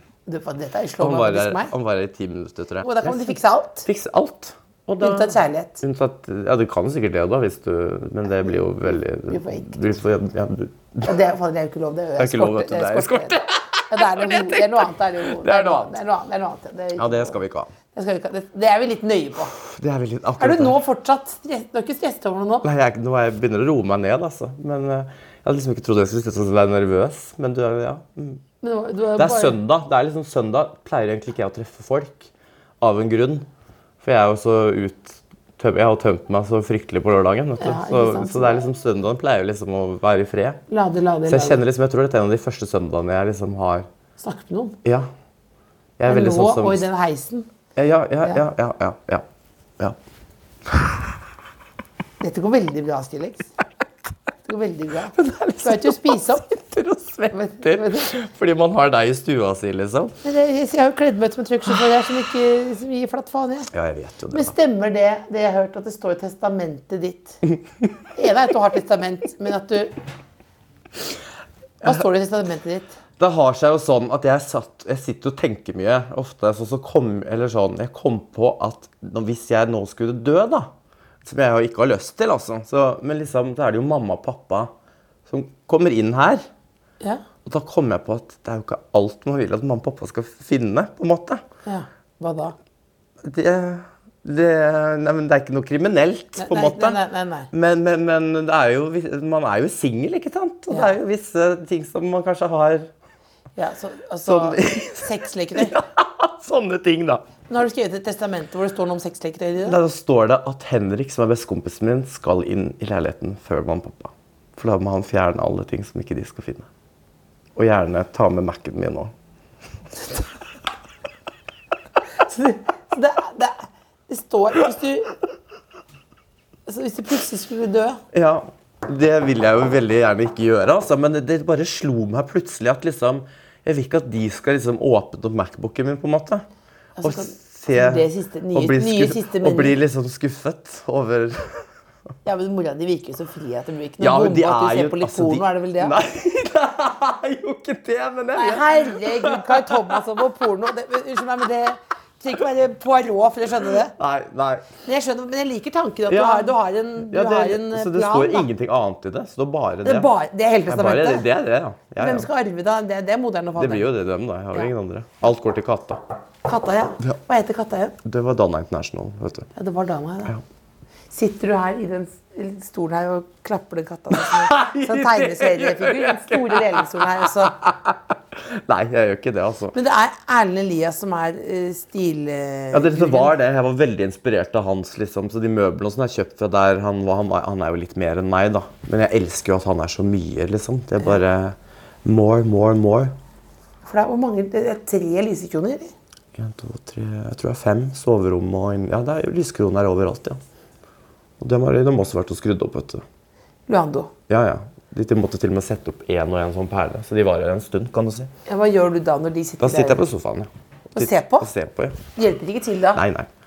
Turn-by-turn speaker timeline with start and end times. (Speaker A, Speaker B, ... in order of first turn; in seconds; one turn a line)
Speaker A: 0.3-1.7
Speaker B: 1.0-11.2
Speaker A: 2.8-3.9
Speaker A: 5.0-5.8
Speaker A: 9.3-9.8
Speaker A: 11.1-13.4
Speaker B: 12.2-15.9
Speaker A: 13.9-17.4
Speaker B: 17.0-17.7
Speaker A: 17.9-19.5
Speaker B: 19.5-20.8
Speaker A: 20.4-22.7
Speaker B: 22.6-28.4
Speaker A: 28.6-29.6
Speaker B: 29.2-33.5
Speaker B: 34.0-40.6
Speaker A: 37.6-38.6
Speaker A: 40.7-41.6
Speaker B: 41.3-43.9
Speaker A: 44.2-44.8
Speaker B: 44.8-45.1
Speaker B: 46.0-46.9
Speaker A: 46.1-47.5
Speaker B: 47.8-49.2
Speaker B: 50.7-51.0
Speaker A: 52.2-53.5
Speaker A: 54.5-56.5
Speaker B: 55.1-60.2
Speaker A: 57.3-58.1
Speaker A: 60.2-63.7
Speaker B: 63.7-64.5
Speaker A: 64.3-67.4
Speaker A: 68.1-69.9
Speaker A: 71.8-73.0
Speaker B: 73.2-80.7
Speaker B: 81.2-84.7
Speaker B: 85.3-86.5
Speaker B: 87.4-91.4
Speaker A: 91.7-92.5
Speaker B: 93.2-102.9
Speaker A: 96.4-97.5
Speaker A: 103.6-105.8
Speaker B: 104.2-107.2
Speaker A: 107.5-109.8
Speaker B: 109.6-116.7
Speaker B: 117.6-119.1
Speaker A: 122.3-125.2
Speaker A: 126.7-128.0
Speaker B: 128.1-136.5
Speaker A: 137.0-139.8
Speaker B: 137.0-141.7
Speaker A: 142.2-146.0
Speaker B: 144.0-150.0
Speaker A: 148.3-153.9
Speaker B: 153.9-154.7
Speaker A: 154.8-158.5
Speaker B: 156.1-160.1
Speaker A: 159.8-161.3
Speaker B: 160.7-162.3
Speaker A: 162.0-163.9
Speaker B: 163.6-166.0
Speaker A: 166.4-168.0
Speaker B: 168.0-169.5
Speaker A: 169.6-170.4
Speaker A: 171.1-177.6
Speaker B: 174.1-179.8
Speaker A: 179.7-183.3
Speaker B: 182.7-193.1
Speaker A: 193.8-195.9
Speaker B: 196.3-200.4
Speaker B: 201.4-203.0
Speaker A: 203.7-204.1
Speaker B: 204.3-208.3
Speaker A: 208.5-210.0
Speaker B: 209.6-212.0
Speaker A: 211.0-211.5
Speaker A: 212.2-213.0
Speaker B: 212.9-213.3